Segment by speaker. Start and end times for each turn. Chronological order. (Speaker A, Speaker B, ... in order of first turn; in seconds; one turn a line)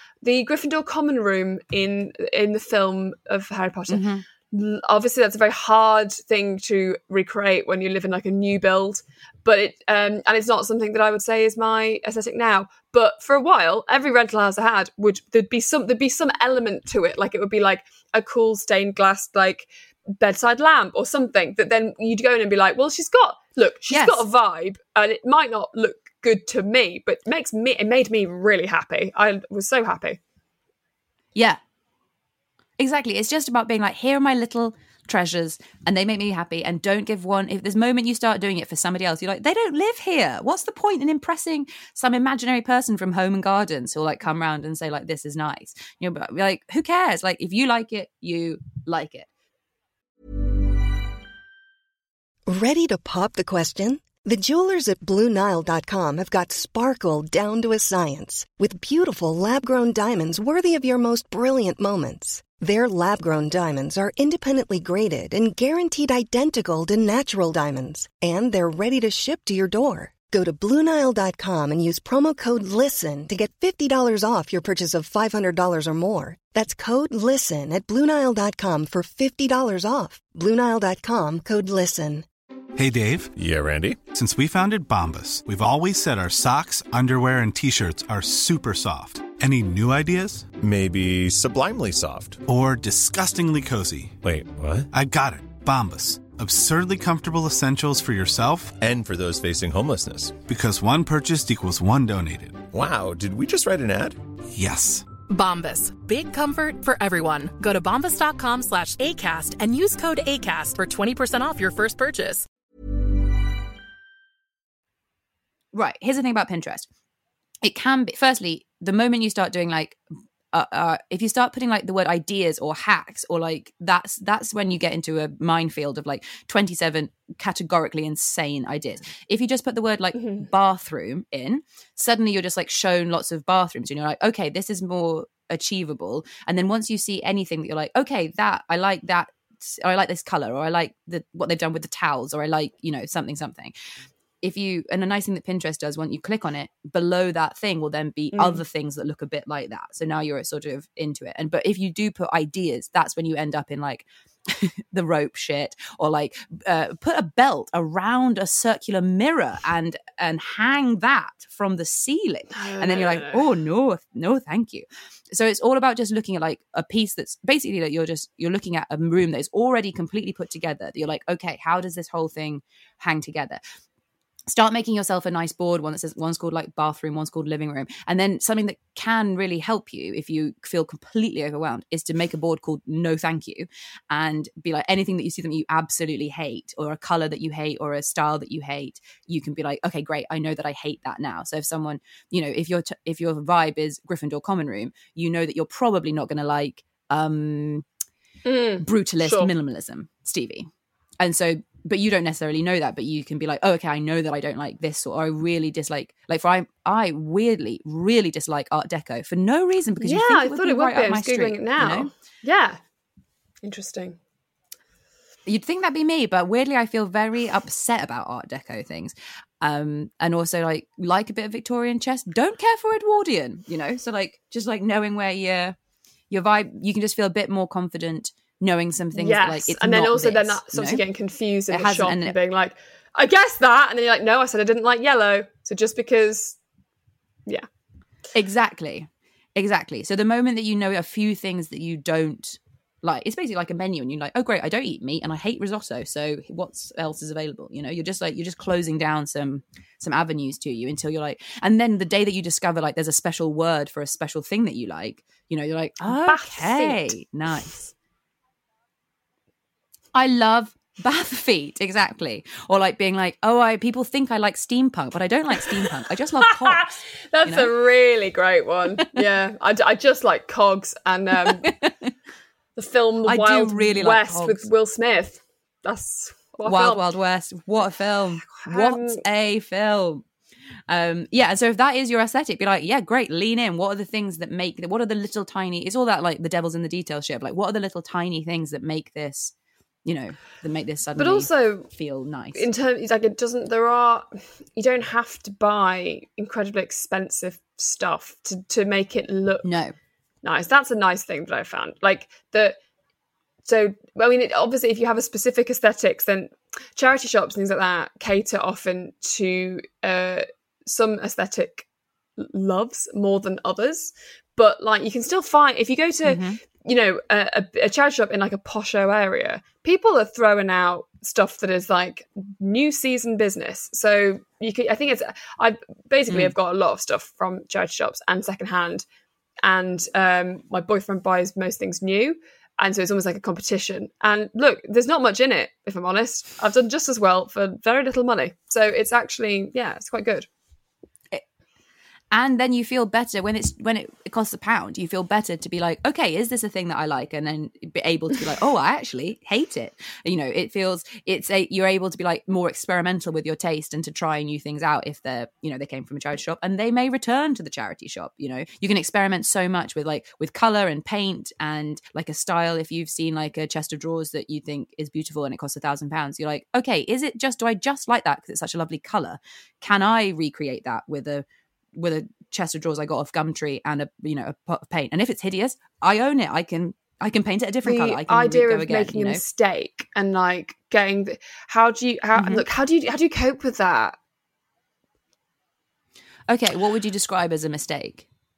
Speaker A: 0.2-30.2
Speaker B: 3.9-4.2
Speaker B: 23.9-24.2
Speaker B: 32.8-49.3
Speaker C: 52.5-82.3
Speaker D: 82.8-83.3
Speaker E: 83.3-84.0
Speaker D: 84.1-90.5
Speaker E: 90.5-92.4
Speaker D: 92.5-94.2
Speaker E: 94.2-94.9
Speaker D: 94.9-98.8
Speaker E: 98.8-100.4
Speaker D: 100.4-102.6
Speaker E: 102.7-104.2
Speaker D: 104.5-105.1
Speaker F: 105.3-112.5
Speaker B: 115.7-116.9
Speaker B: 117.6-120.0
Speaker B: 120.5-143.7
Speaker A: 130.2-130.5
Speaker B: 144.4-173.6
Speaker A: 148.3-148.6
Speaker A: 162.6-163.4
Speaker B: 174.5-197.8
Speaker A: 198.4-199.5
Speaker B: 198.8-200.7
Speaker B: 201.2-212.1
Speaker A: 210.0-212.8
Speaker A: 213.6-214.2
Speaker B: 215.5-225.8
Speaker B: 226.3-231.0
Speaker A: 229.1-236.6
Speaker B: 231.7-232.4
Speaker B: 238.3-257.9
Speaker A: 256.0-257.1
Speaker B: 260.1-267.7
Speaker A: 266.4-271.7
Speaker B: 271.6-272.1
Speaker A: 272.8-277.1
Speaker B: 273.3-274.7
Speaker B: 276.6-280.2
Speaker A: 278.4-279.2
Speaker B: 280.9-289.5
Speaker B: 290.1-292.7
Speaker A: 291.2-291.9
Speaker A: 292.6-299.7
Speaker B: 299.6-299.9
Speaker A: 300.4-302.8
Speaker A: 303.6-311.9
Speaker A: 312.4-329.1
Speaker B: 316.2-316.6
Speaker A: 329.6-340.5
Speaker B: 342.3-379.4
Speaker A: 377.8-384.2
Speaker B: 382.4-382.6
Speaker B: 386.5-388.3